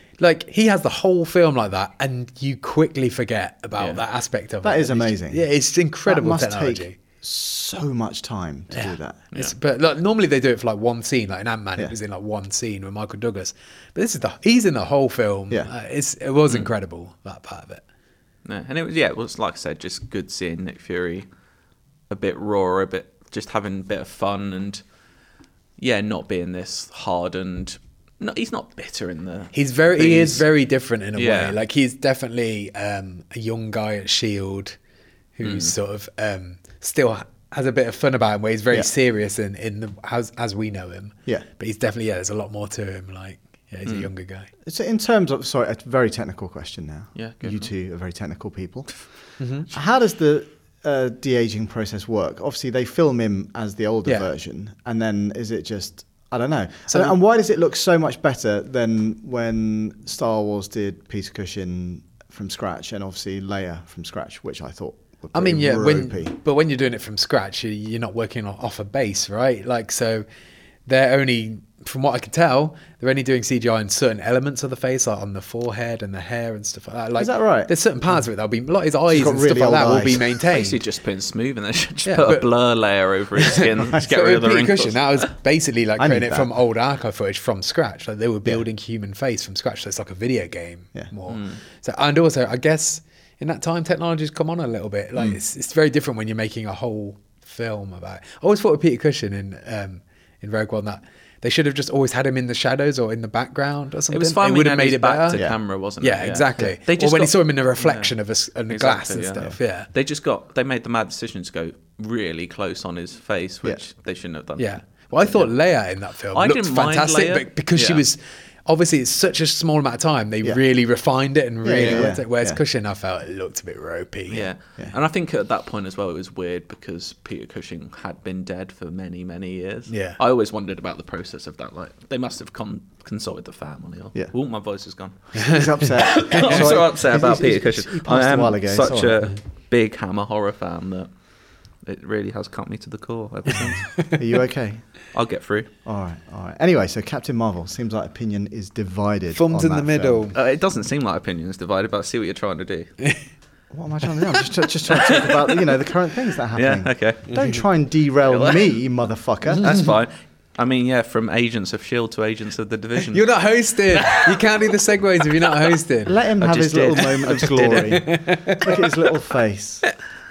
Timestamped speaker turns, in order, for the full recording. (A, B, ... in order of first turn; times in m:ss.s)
0:00.2-0:07.0 A
0:03.8-0:04.0 B
0:04.6-0:05.4 C
0:06.1-0:09.2 C
0:08.7-0:17.8 A
0:18.4-0:21.3 B
0:22.1-0:24.8 B
0:25.8-0:30.4 B
0:29.5-0:34.8 A
0:31.2-0:31.6 B
0:35.4-0:44.5 A
0:35.4-0:35.7 B
0:44.6-0:49.0 C
0:47.2-0:47.7 B
0:49.4-0:49.7 A
0:49.7-1:06.3 C
0:56.9-0:57.2 A
1:05.3-1:10.2 A
1:10.9-1:20.8 A
1:17.2-1:17.7 C
1:19.1-1:20.4 C
1:20.5-1:25.2 B
1:22.1-1:22.5 A
1:23.4-1:45.4 A
1:26.0-1:26.5 C
1:31.3-1:31.6 B
1:44.1-1:48.1 B
1:46.0-1:49.9 A
1:48.7-1:55.5 B
1:54.6-2:04.5 A
1:56.3-1:58.0 B
2:01.6-2:02.6 C
2:01.8-2:02.1 B
2:04.3-2:21.1 B
2:09.9-2:10.2 A
2:15.4-2:19.3 C
2:21.8-2:23.9 B
2:24.2-2:24.9 C
2:25.1-2:25.7 B
2:25.8-2:30.2 C
2:29.3-2:30.4 A
2:30.4-2:32.9 B
2:33.7-2:39.7 C
2:34.9-2:35.7 B
2:36.5-2:37.4 B
2:38.2-2:38.7 B
2:39.5-2:43.2 B
2:39.6-2:40.0 A
2:43.1-2:46.2 A
2:43.9-2:44.4 B
2:46.0-2:49.8 C
2:46.4-2:48.1 B
2:48.0-2:48.8 A